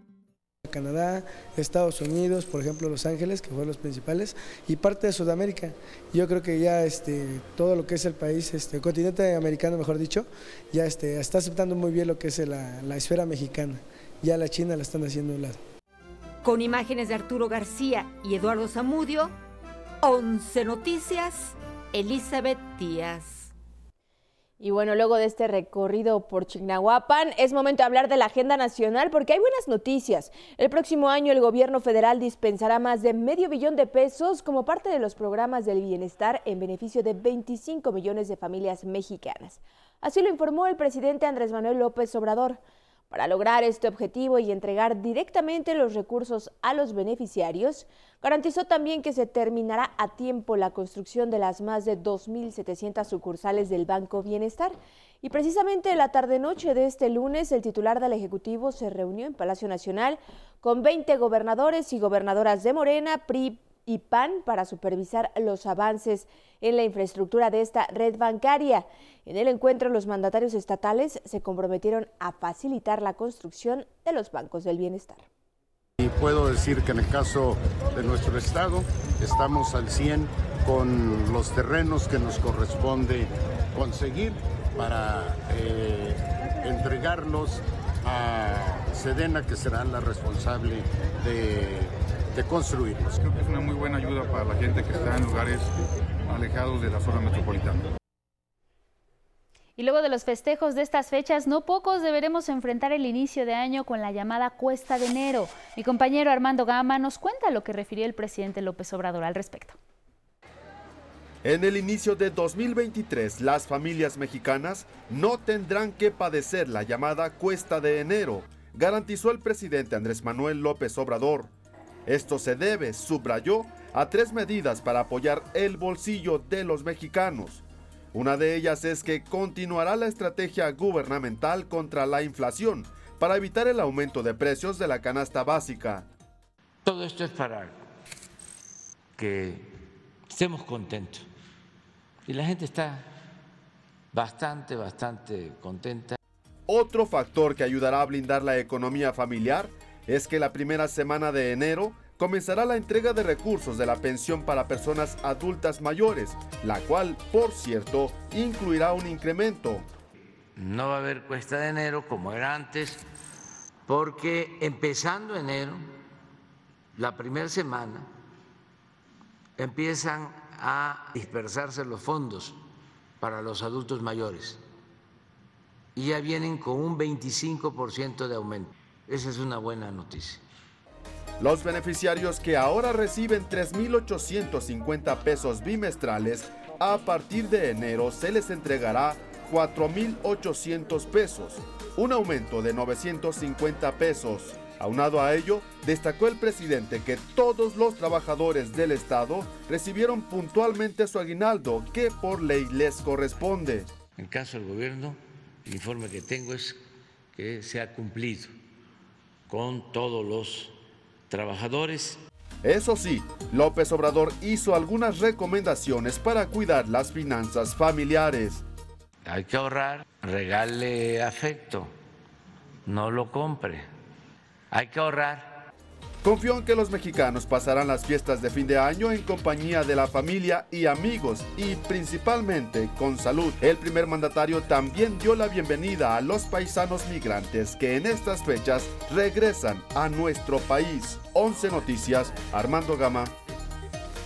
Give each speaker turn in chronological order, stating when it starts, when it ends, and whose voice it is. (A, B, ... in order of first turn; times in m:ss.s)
0:00.6-0:15.6 A
0:16.4-0:19.3 B
0:20.0-0:23.5 B
0:24.6-1:15.3 C
1:16.0-1:33.2 D
1:33.2-1:35.7 E
1:36.3-1:37.8 E
1:39.8-1:49.8 F
1:51.4-2:01.5 G
2:02.1-2:16.0 G
2:16.8-2:17.8 H
2:19.2-2:19.7 H
2:20.3-2:21.2 H
2:22.2-2:23.1 H
2:24.1-2:26.2 H
2:26.7-2:39.9 G
2:40.6-2:43.0 H
2:43.9-2:45.9 H
2:47.0-2:48.1 H
2:49.6-2:52.6 H
2:53.2-2:54.6 H
2:56.0-3:00.4 H
3:01.4-3:23.9 G
3:24.2-3:28.5 H
3:29.5-3:30.8 H
3:31.3-3:32.2 H
3:32.6-3:38.6 G
3:39.2-3:41.9 H
3:42.8-3:43.9 H
3:44.7-3:45.6 H
3:46.2-4:03.3 G